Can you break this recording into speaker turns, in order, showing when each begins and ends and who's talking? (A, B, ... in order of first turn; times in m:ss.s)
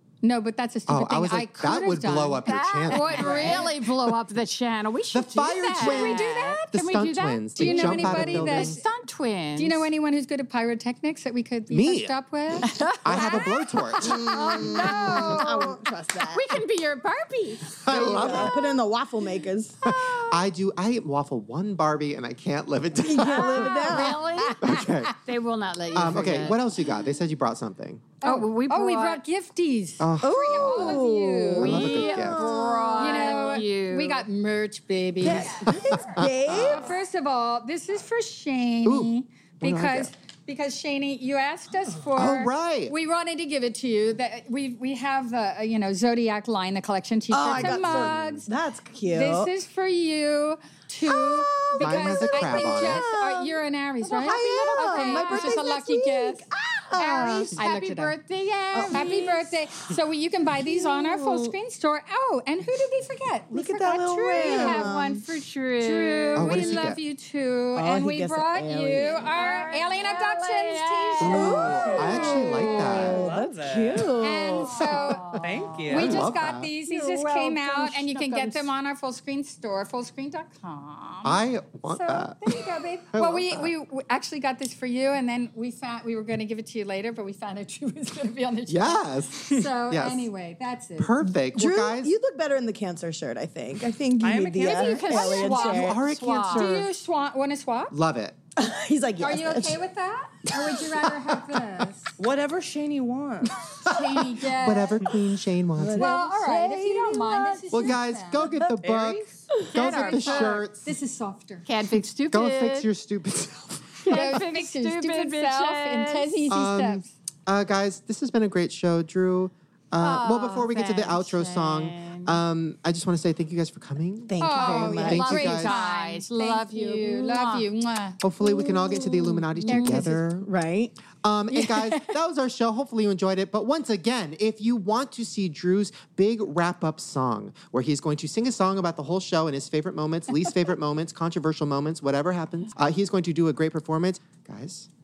0:00.2-0:03.8 A
0:00.9-0:03.8 B
0:02.4-0:09.9 C
0:05.1-0:08.8 B
0:05.8-0:06.7 A
0:07.6-0:08.8 A
0:09.6-0:13.3 A
0:11.7-0:14.3 B
0:12.6-0:18.4 C
0:14.0-0:16.6 D
0:14.4-0:15.6 A
0:17.8-0:18.6 B
0:17.9-0:19.8 D
0:19.8-0:23.8 B
0:19.9-0:20.4 C
0:23.0-0:24.5 D
0:23.3-0:26.7 C
0:24.4-0:24.8 A
0:24.6-0:25.2 B
0:25.9-0:28.1 B
0:28.2-0:31.9 A
0:28.2-0:29.2 C
0:30.0-0:31.0 B
0:30.2-0:33.6 D
0:31.5-0:34.3 C
0:31.6-0:32.5 B
0:33.0-0:48.5 A
0:35.2-0:37.0 D
0:35.9-0:36.8 B
0:38.8-0:40.1 B
0:42.1-0:43.0 B
0:47.3-0:49.5 D
0:47.5-0:48.5 B
0:49.1-0:58.2 A
0:51.0-0:57.6 D
0:51.8-0:53.1 B
0:54.2-0:55.7 C
0:57.4-0:59.4 C
0:58.7-0:59.4 D
0:58.9-1:05.2 A
1:00.6-1:01.6 D
1:03.5-1:05.2 D
1:04.4-1:06.8 C
1:05.8-1:12.9 A
1:06.1-1:06.6 E
1:06.3-1:07.0 B
1:07.7-1:09.4 D
1:09.2-1:12.6 C
1:11.2-1:13.3 B
1:11.2-1:14.9 D
1:11.7-1:14.1 E
1:14.2-1:31.3 A
1:14.7-1:16.2 C
1:14.8-1:15.3 B
1:15.4-1:16.3 E
1:15.9-1:16.7 B
1:16.8-1:18.7 C
1:21.2-1:23.7 B
1:28.7-1:30.3 B
1:31.0-1:32.1 B
1:31.5-1:36.0 D
1:34.2-1:35.3 E
1:34.6-1:36.8 C
1:35.1-1:36.0 A
1:35.5-1:36.9 B
1:36.5-1:37.9 A
1:37.9-1:38.4 B
1:38.6-1:39.8 D
1:39.2-1:42.2 A
1:42.2-1:43.7 E
1:43.8-1:46.1 B
1:43.8-1:45.2 A
1:45.8-1:48.0 D
1:46.0-1:48.5 A
1:47.7-1:50.9 B
1:48.8-1:49.3 E
1:49.5-1:49.8 D
1:49.7-1:50.7 C
1:49.9-1:51.7 A
1:51.7-1:52.9 C
1:52.3-1:54.3 B
1:54.0-1:56.6 C
1:54.1-1:57.1 A
1:56.5-2:05.8 B
2:00.0-2:02.4 C
2:04.3-2:05.4 D
2:04.4-2:08.2 A
2:04.6-2:07.7 C
2:08.2-2:10.5 B
2:08.4-2:10.9 D
2:09.7-2:10.2 A
2:09.8-2:10.0 C
2:11.2-2:24.9 B
2:11.5-2:12.1 A